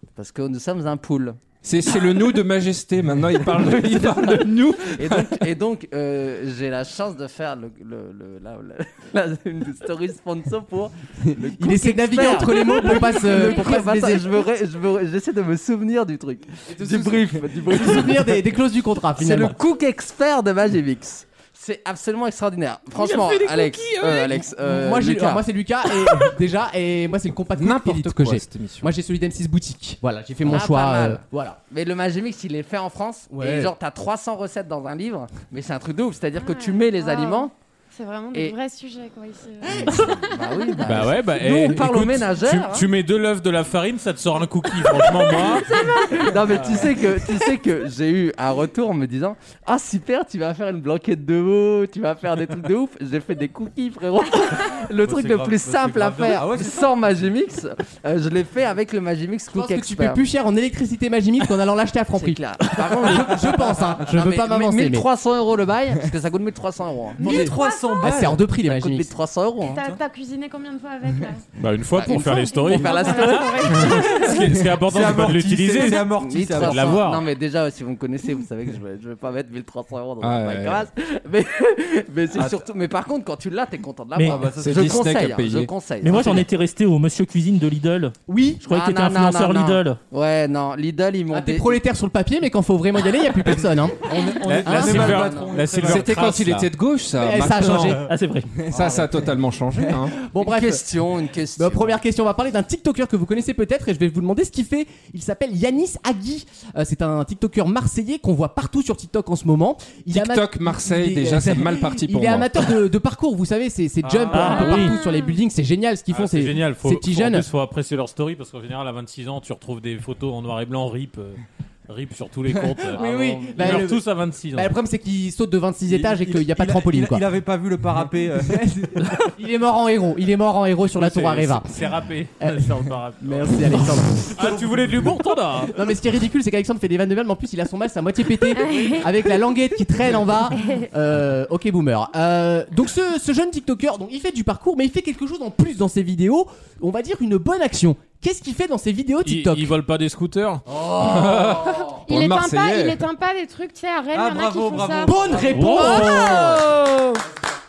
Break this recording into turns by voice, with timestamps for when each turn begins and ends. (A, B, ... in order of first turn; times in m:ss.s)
0:00.2-0:01.4 A
0:01.6-0:05.4 B
0:04.8-0:18.4 A
0:11.2-0:14.3 C
0:12.7-0:13.2 D
0:16.7-0:19.6 C
0:19.2-0:25.4 A
0:24.6-0:31.6 C
0:27.6-0:28.9 B
0:30.4-0:37.5 A
0:33.3-0:33.7 C
0:36.4-0:40.8 D
0:39.8-0:42.8 A
0:40.8-0:45.8 E
0:45.6-0:46.3 D
0:46.1-1:00.2 A
0:55.0-0:57.2 F
0:59.5-1:05.0 C
1:02.1-1:07.4 A
1:07.2-1:08.1 D
1:07.2-1:08.5 F
1:07.2-1:09.1 C
1:08.6-1:09.8 A
1:09.6-1:11.4 D
1:11.6-1:16.0 E
1:12.0-1:13.9 A
1:12.1-1:14.4 D
1:14.8-1:17.0 F
1:16.0-1:26.4 A
1:16.6-1:17.2 E
1:20.2-1:20.9 B
1:22.3-1:22.6 F
1:24.2-1:24.4 G
1:24.2-1:25.2 F
1:24.6-1:25.7 B
1:26.0-1:30.0 G
1:28.3-1:28.6 C
1:28.6-1:31.8 A
1:31.3-1:35.4 C
1:34.0-1:36.3 F
1:34.4-1:35.0 B
1:34.6-1:36.7 E
1:35.2-1:35.6 A
1:35.7-1:38.0 B
1:37.2-1:38.1 C
1:38.0-1:38.5 G
1:38.6-1:39.0 C
1:38.7-1:40.2 B
1:38.8-1:39.0 F
1:39.8-1:57.4 C
1:40.4-1:42.0 A
1:50.1-1:52.8 B
1:54.0-1:54.6 F
1:54.3-1:54.9 G
1:54.3-1:55.4 D
1:54.4-1:54.7 E
1:56.1-2:03.0 E
2:02.7-2:04.0 C
2:02.9-2:03.9 A
2:03.5-2:04.7 E
2:04.5-2:07.3 C
2:05.8-2:08.7 F
2:08.4-2:11.7 C
2:10.9-2:15.7 E
2:12.4-2:14.3 C
2:14.3-2:15.1 F
2:15.7-2:29.7 C
2:18.5-2:19.1 D
2:20.6-2:20.9 D
2:29.2-2:30.6 E
2:30.7-2:31.8 C
2:30.9-2:33.0 B
2:31.9-2:35.2 D
2:34.1-2:36.6 F
2:35.0-2:36.9 C
2:35.5-2:36.6 E
2:35.8-2:36.7 D